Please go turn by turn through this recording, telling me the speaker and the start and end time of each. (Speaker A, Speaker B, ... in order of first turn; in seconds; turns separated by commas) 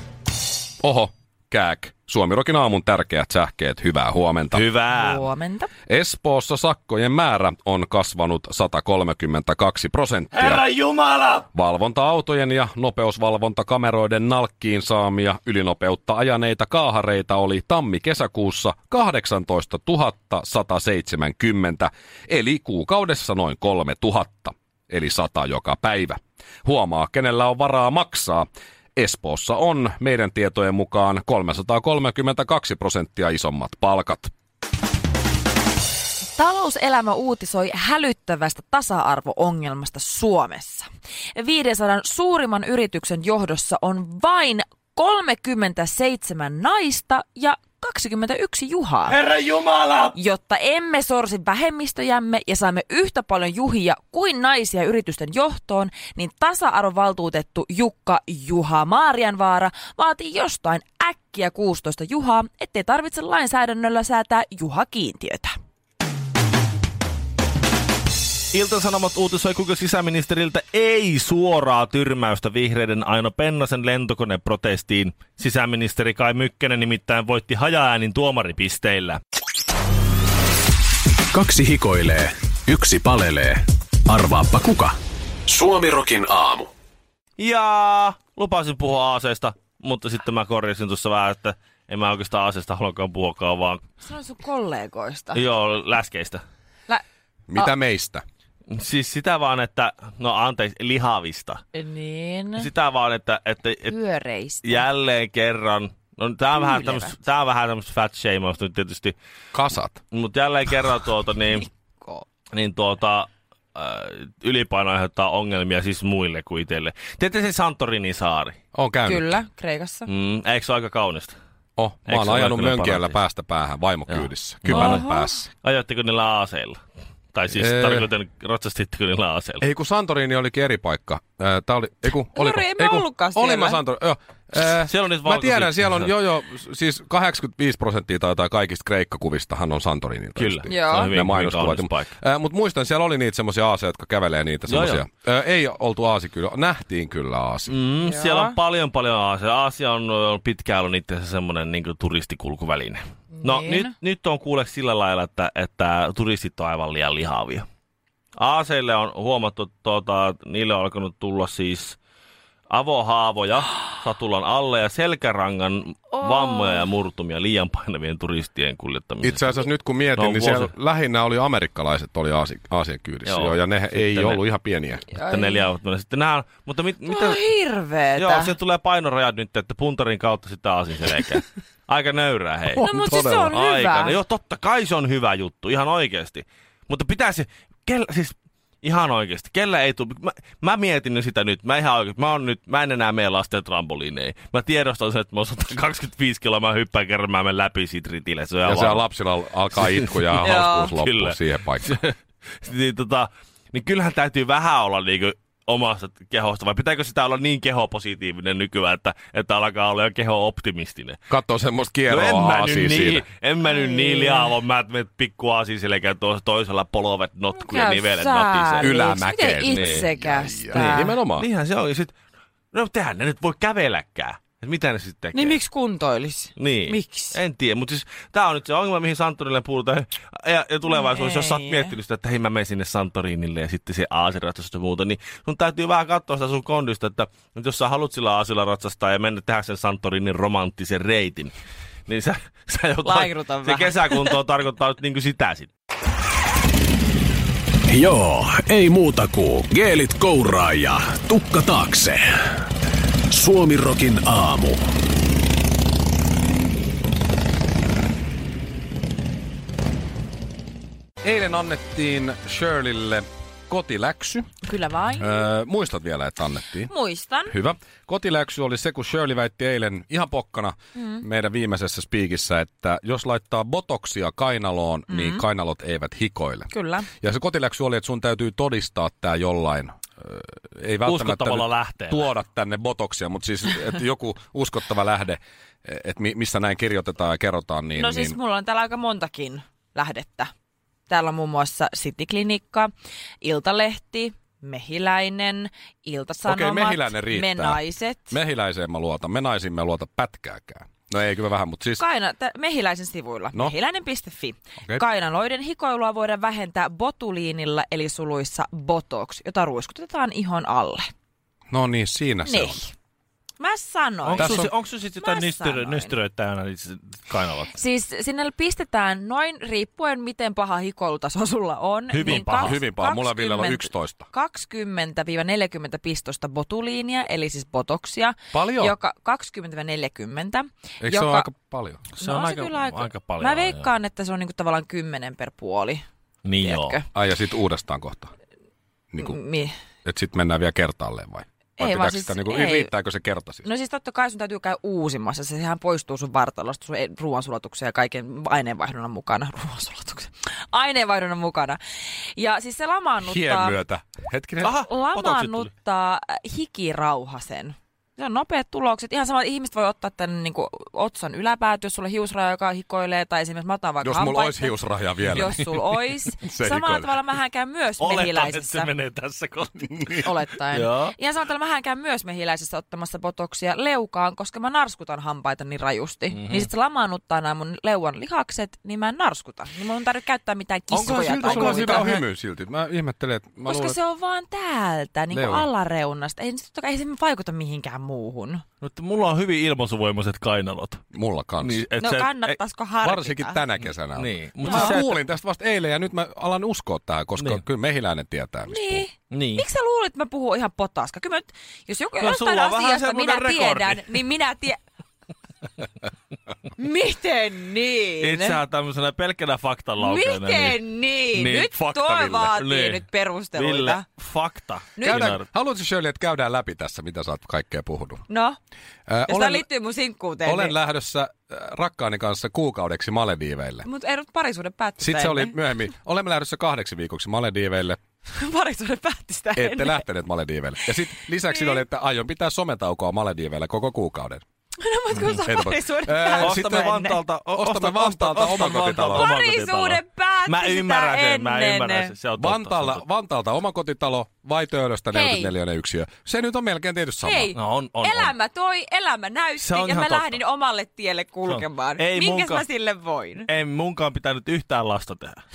Speaker A: 0.8-4.6, Speaker B: 4.5-5.2, Speaker C: 4.9-5.7, Speaker A: 5.9-10.7, Speaker B: 10.3-11.4, Speaker A: 11.5-34.3, Speaker C: 36.4-49.2, Speaker C: 50.1-65.5, Speaker B: 68.5-79.2, Speaker D: 81.3-86.7, Speaker B: 87.4-93.8, Speaker C: 94.0-95.4, Speaker B: 95.3-96.4, Speaker A: 97.5-98.2, Speaker B: 98.7-101.6, Speaker C: 101.7-102.7, Speaker B: 102.6-103.9, Speaker C: 103.8-104.8, Speaker B: 104.6-109.2, Speaker C: 106.6-107.2, Speaker A: 109.5-110.0, Speaker B: 110.1-111.7, Speaker B: 112.5-118.6, Speaker A: 118.7-119.4, Speaker C: 119.1-120.1, Speaker B: 120.1-121.4, Speaker A: 121.8-125.5, Speaker B: 122.1-123.2, Speaker B: 124.1-125.1, Speaker C: 124.7-125.3, Speaker B: 125.6-126.8, Speaker B: 127.3-129.6, Speaker A: 127.6-128.1, Speaker A: 129.6-147.7, Speaker C: 132.3-133.8, Speaker B: 134.9-136.1, Speaker B: 140.4-142.1, Speaker C: 140.7-141.1, Speaker B: 144.7-145.0, Speaker B: 147.7-157.7, Speaker C: 148.0-148.6, Speaker C: 153.3-153.9, Speaker B: 158.4-162.0, Speaker B: 162.7-169.6, Speaker C: 166.2-166.8, Speaker A: 169.2-175.0, Speaker B: 170.2-170.7, Speaker B: 173.3-174.4, Speaker C: 175.1-175.7, Speaker B: 175.3-177.4, Speaker C: 177.1-178.6, Speaker B: 178.2-199.1, Speaker C: 182.8-184.2, Speaker A: 182.8-183.5, Speaker A: 198.7-201.9, Speaker B: 199.8-211.2, Speaker C: 200.4-200.9, Speaker A: 211.3-213.2, Speaker B: 212.1-218.9, Speaker C: 213.6-214.5, Speaker C: 217.5-221.2, Speaker A: 218.8-221.5, Speaker B: 219.7-220.0, Speaker B: 220.7-222.1, Speaker B: 222.7-225.6, Speaker C: 225.3-227.4, Speaker B: 226.6-241.5, Speaker C: 230.9-231.9, Speaker B: 242.1-245.7, Speaker C: 243.0-244.4, Speaker D: 247.9-252.6, Speaker D: 253.3-254.8, Speaker A: 261.2-264.5, Speaker C: 264.6-265.4, Speaker A: 265.2-266.9, Speaker C: 266.9-267.5, Speaker A: 267.5-288.4, Speaker C: 271.0-271.2, Speaker C: 275.1-275.4, Speaker C: 276.7-277.1, Speaker B: 281.1-282.3, Speaker C: 288.0-290.5, Speaker C: 291.1-298.4, Speaker A: 296.5-297.8, Speaker A: 298.3-302.0, Speaker C: 302.0-311.1, Speaker A: 311.7-312.8, Speaker C: 312.4-312.9, Speaker C: 313.6-314.7, Speaker B: 314.2-317.8, Speaker A: 314.4-314.7, Speaker C: 315.2-316.1, Speaker C: 317.7-331.5, Speaker B: 322.1-322.8, Speaker A: 322.3-324.3, Speaker A: 328.5-328.9, Speaker A: 331.0-332.0, Speaker B: 332.2-333.9, Speaker C: 332.2-336.0, Speaker B: 336.4-337.0, Speaker C: 336.6-337.1, Speaker A: 337.1-338.3, Speaker A: 339.1-339.4, Speaker C: 339.2-339.7, Speaker A: 340.1-343.6, Speaker C: 341.8-342.9, Speaker C: 343.6-353.8, Speaker A: 353.2-354.8, Speaker B: 354.6-355.7, Speaker C: 354.8-364.8, Speaker A: 364.0-367.1, Speaker C: 365.3-368.9, Speaker B: 368.0-371.1, Speaker C: 370.1-382.1, Speaker B: 376.3-376.7, Speaker A: 380.9-384.0, Speaker B: 381.0-382.2, Speaker C: 383.6-388.6, Speaker A: 385.3-385.7, Speaker B: 388.8-391.0, Speaker A: 391.1-391.8, Speaker B: 391.6-392.6, Speaker C: 392.0-393.6, Speaker A: 393.0-399.1, Speaker B: 393.8-395.2, Speaker C: 394.6-395.0, Speaker B: 397.4-397.6, Speaker C: 398.7-404.8, Speaker B: 399.3-399.7, Speaker B: 402.2-404.2, Speaker C: 406.8-408.6, Speaker B: 408.2-410.8, Speaker C: 410.0-414.1, Speaker B: 411.3-411.8, Speaker A: 411.7-412.6, Speaker B: 412.6-415.5, Speaker C: 415.0-415.3, Speaker A: 415.0-418.2, Speaker C: 418.3-418.6, Speaker A: 419.1-419.7, Speaker C: 419.3-420.8, Speaker A: 420.4-423.9, Speaker C: 423.8-425.8, Speaker A: 425.0-428.0, Speaker C: 428.3-430.1, Speaker A: 429.6-434.4, Speaker C: 431.2-431.8, Speaker C: 434.8-437.2, Speaker A: 435.4-436.9, Speaker B: 436.4-443.0, Speaker A: 437.6-439.3, Speaker C: 439.1-442.1, Speaker A: 442.4-447.5, Speaker C: 445.1-445.6, Speaker C: 447.2-453.5, Speaker B: 447.6-448.3, Speaker B: 449.6-450.4, Speaker B: 451.5-452.7, Speaker B: 453.5-455.4